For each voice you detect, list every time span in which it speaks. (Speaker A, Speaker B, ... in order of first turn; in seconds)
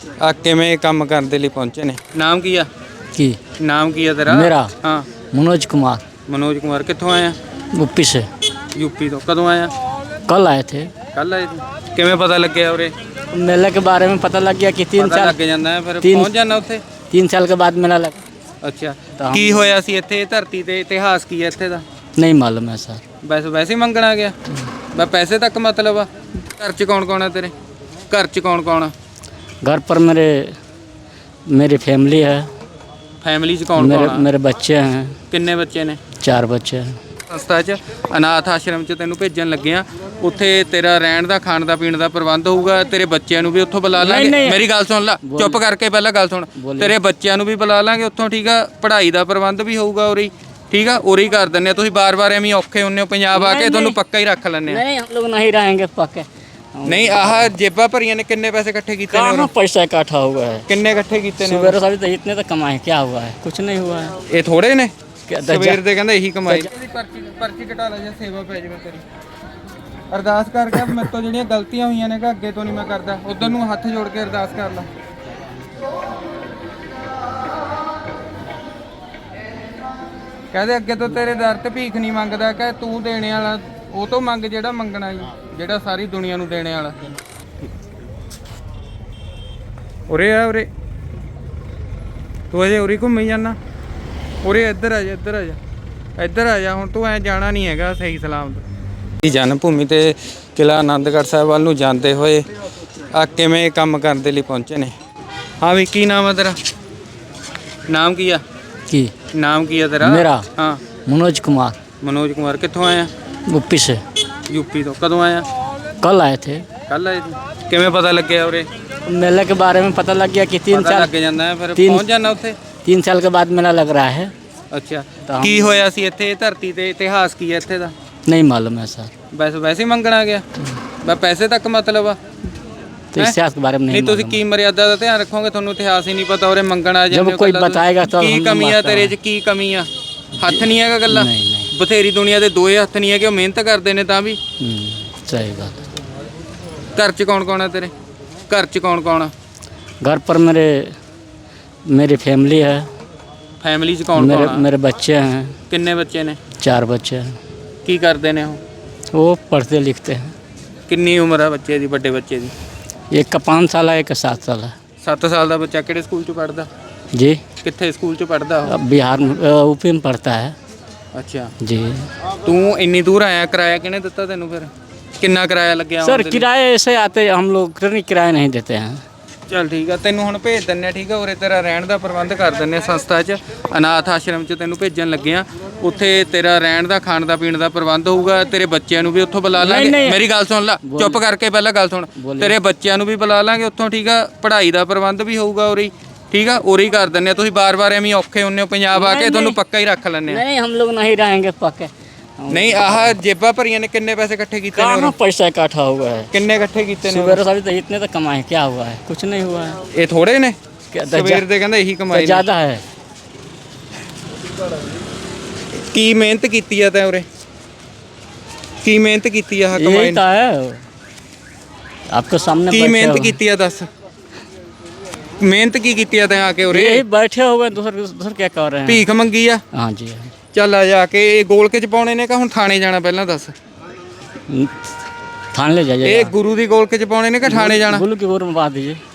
Speaker A: 0.2-2.7, 3.6-5.1, 6.3-7.4, 8.7-9.7, 11.1-12.9, 15.0-16.8, 18.6-21.8, 23.2-24.4, 24.9-27.5, 28.1-28.9, 33.2-34.3, 35.3-36.0, 37.3-54.8, 56.9-59.5, 60.7-61.8, 64.3-69.0, 70.1-74.9, 80.5-87.0, 90.1-90.7, 92.5-93.6, 94.4-95.6, 96.2-98.6, 99.2-102.5, 103.1-104.9, 105.6-106.6, 107.9-108.4, 109.3-110.8, 112.0-113.1, 114.5-115.5, 116.9-118.7, 120.7-122.6, 124.7-127.9, 129.3-130.4, 131.0-132.2, 133.9-144.4, 146.9-147.9, 148.5-149.3, 153.6-154.7, 155.7-156.4, 157.8-158.6, 160.9-162.5, 165.0-166.7, 167.6-168.8, 171.1-171.5, 172.4-176.4, 179.5-200.4, 202.5-205.1, 206.3-207.4, 209.9-212.4, 215.7-217.2, 218.8-220.2, 222.7-223.9, 225.4-227.0, 228.9-229.6, 230.5-233.5, 236.0-238.0
Speaker B: 3.1-3.4, 4.3-4.7, 5.3-6.0, 7.7-8.3, 10.2-10.9, 13.3-15.4, 16.0-16.3, 17.1-18.2, 19.2-19.7, 22.1-23.0, 29.6-30.6, 31.5-32.5, 33.8-35.2, 36.2-37.0, 44.0-44.6, 45.2-45.6, 46.5-46.9, 53.3-54.0, 54.7-57.5, 59.1-60.7, 61.4-64.2, 65.3-65.8, 110.0-110.5, 111.0-111.8, 113.5-114.0, 116.0-116.7, 119.1-121.1, 121.8-122.2, 122.8-124.3, 125.3-125.8, 128.3-129.1, 133.1-134.4, 137.1-139.2, 140.4-141.7, 144.6-145.9, 150.0-150.9, 151.9-152.9, 154.1-155.6, 156.6-157.4, 159.1-160.3, 163.1-164.7, 167.1-167.4, 168.7-170.6, 171.6-172.1, 176.0-179.0, 189.6-190.2, 190.8-191.2, 192.2-192.6, 198.9-199.6, 200.3-203.2, 204.7-206.3, 207.0-209.8, 210.9-211.4, 212.1-212.8, 219.7-220.8, 222.1-223.4, 226.7-229.1, 229.7-230.3, 234.5-234.7, 235.5-236.3, 237.4-239.0